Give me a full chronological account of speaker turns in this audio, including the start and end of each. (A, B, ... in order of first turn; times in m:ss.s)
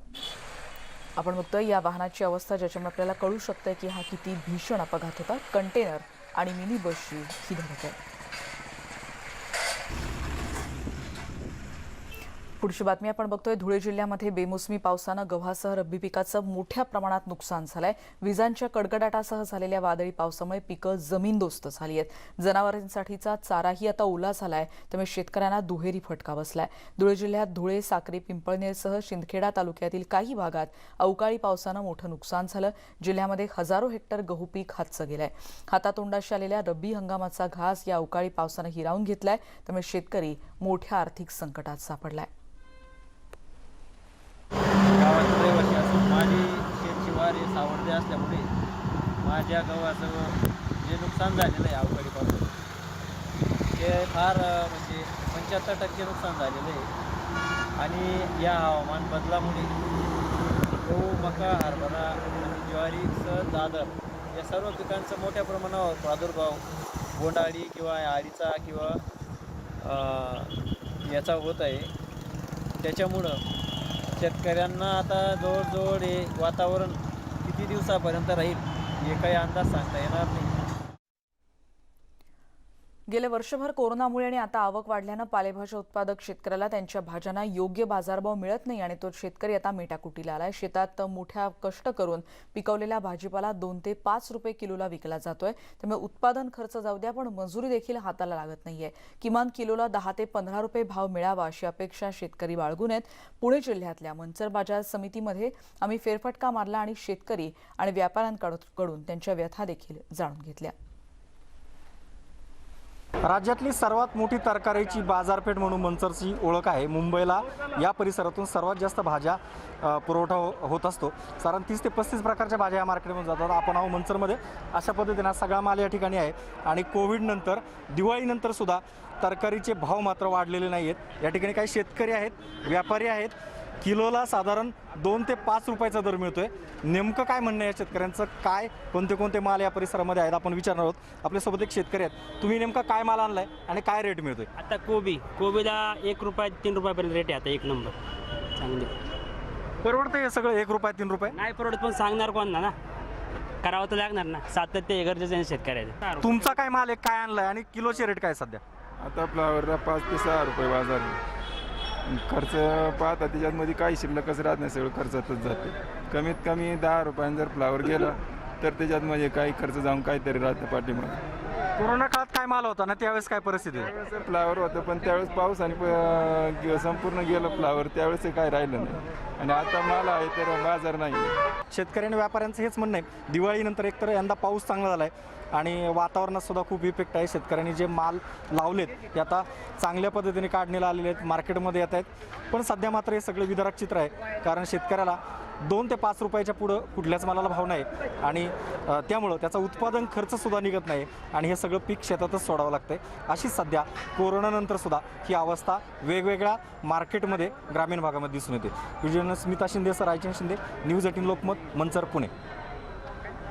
0:01.2-0:08.0 A
0:12.6-0:42.3 A
0:44.9-0:48.5 B
0:49.2-0:52.5 B
0:53.7-0:56.9 B
0:57.8-0:59.8 B
1:00.8-1:09.0 B
1:09.8-1:11.9 B
1:12.8-1:13.4 B
1:14.1-1:20.5 B
1:23.1-1:50.7 A
1:53.2-2:24.5 C
2:24.6-2:28.0 D
2:28.5-2:29.0 D
2:29.8-2:31.3 C
2:31.3-2:32.8 D
2:33.6-2:36.3 D
2:36.2-2:38.6 C
2:39.0-2:41.2 E
2:42.1-2:51.2 E
2:51.8-2:53.9 C
2:53.9-3:01.4 E
3:01.7-3:32.3 C